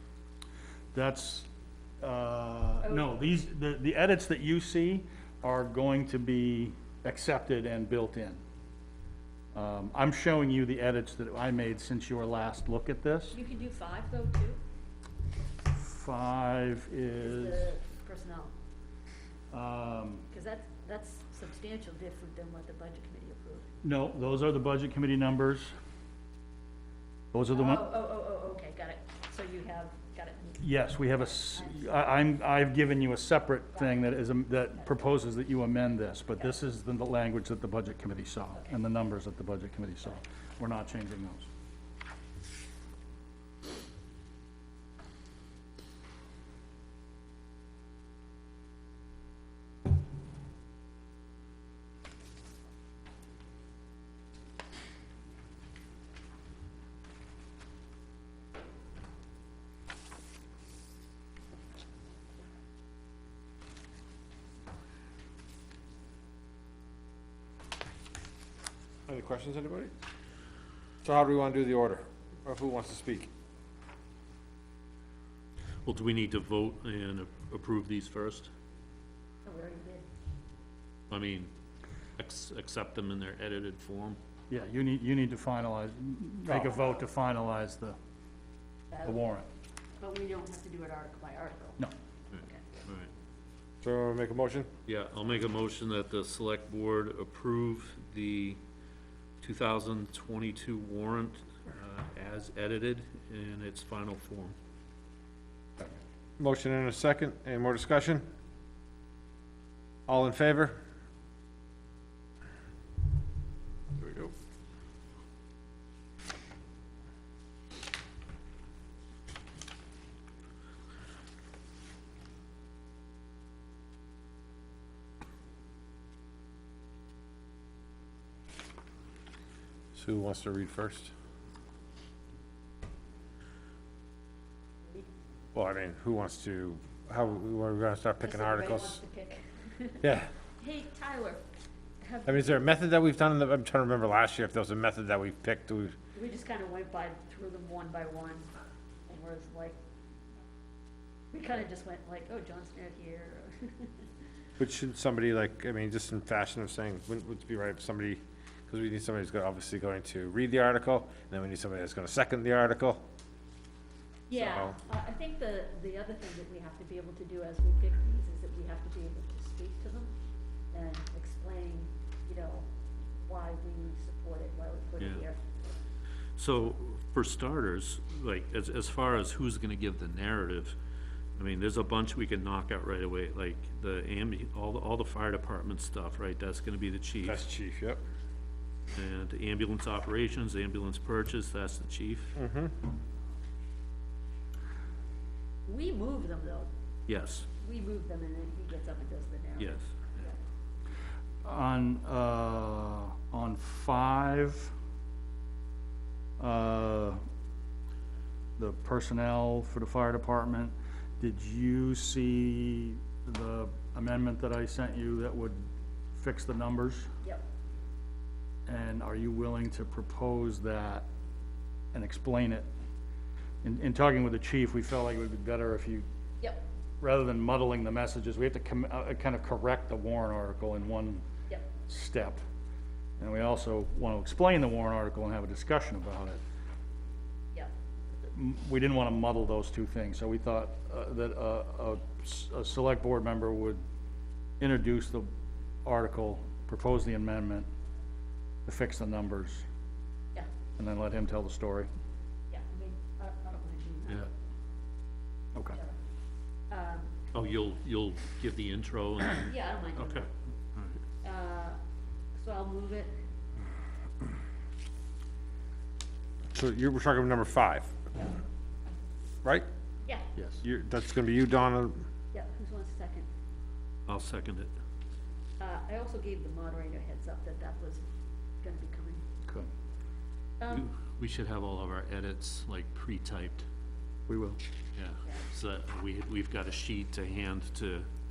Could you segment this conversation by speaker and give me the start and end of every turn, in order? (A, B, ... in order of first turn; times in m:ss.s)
0:00.9-0:01.5 A
0:02.0-0:08.4 A
0:02.8-0:03.1 B
0:09.5-0:13.4 A
0:13.3-0:14.6 B
0:15.7-0:17.7 A
0:17.2-0:18.5 B
0:19.5-0:20.3 A
0:20.3-0:23.7 B
0:23.8-0:25.7 A
0:27.3-0:27.9 A
0:27.5-0:30.6 B
0:30.6-0:41.5 A
0:31.5-0:31.9 B
0:33.7-0:34.9 B
1:09.1-1:09.9 C
1:11.0-1:13.3 C
1:15.8-1:18.5 D
1:19.4-1:20.0 B
1:21.1-1:21.5 D
1:22.2-1:24.2 D
1:24.5-1:28.0 A
1:28.9-1:29.2 B
1:29.0-1:29.5 A
1:30.0-1:31.8 B
1:32.3-1:33.1 D
1:33.8-1:34.7 C
1:34.8-1:38.6 D
1:39.4-1:44.6 D
1:46.4-1:48.2 C
1:50.1-1:50.8 C
1:54.0-1:54.3 C
2:09.9-2:11.1 C
2:14.8-2:15.1 B
2:15.5-2:19.0 C
2:18.2-2:20.0 B
2:20.0-2:20.3 C
2:20.6-2:21.4 B
2:22.0-2:22.5 B
2:22.2-2:25.9 C
2:26.1-2:28.5 B
2:29.1-2:29.8 B
2:31.3-2:34.0 B
2:34.6-2:43.0 C
2:44.3-2:50.1 B
2:44.3-2:44.8 C
2:50.7-2:55.4 B
2:55.0-2:55.2 D
2:56.4-3:00.8 D
3:01.4-3:07.4 D
3:07.2-3:08.0 C
3:08.9-3:12.4 D
3:12.4-3:12.8 C
3:15.6-3:16.7 B
3:17.1-3:17.5 D
3:17.6-3:20.3 B
3:19.6-3:20.3 D
3:21.4-3:24.7 A
3:26.4-3:27.2 A
3:28.6-3:35.6 A
3:36.1-3:37.1 A
3:38.7-3:41.0 A
3:41.9-3:42.7 A
3:43.6-3:46.0 A
3:47.0-3:51.2 A
3:51.8-3:52.4 A
3:53.2-3:56.4 A
3:58.3-4:03.8 A
4:04.6-4:05.3 A
4:05.8-4:07.7 A
4:08.6-4:09.6 A
4:10.8-4:11.9 A
4:12.5-4:14.3 B
4:16.7-4:17.1 B
4:17.3-4:21.0 D
4:19.4-4:20.3 B
4:21.2-4:21.8 B
4:22.4-4:23.1 B
4:26.5-4:28.0 C
4:30.4-4:30.6 A
4:30.6-4:32.0 C
4:32.3-4:33.3 B
4:34.1-4:34.7 D
4:35.6-4:38.0 B
4:38.6-4:39.2 B
4:40.6-4:40.9 B
4:40.7-4:43.6 D
4:44.3-4:44.6 A
4:45.0-4:48.1 D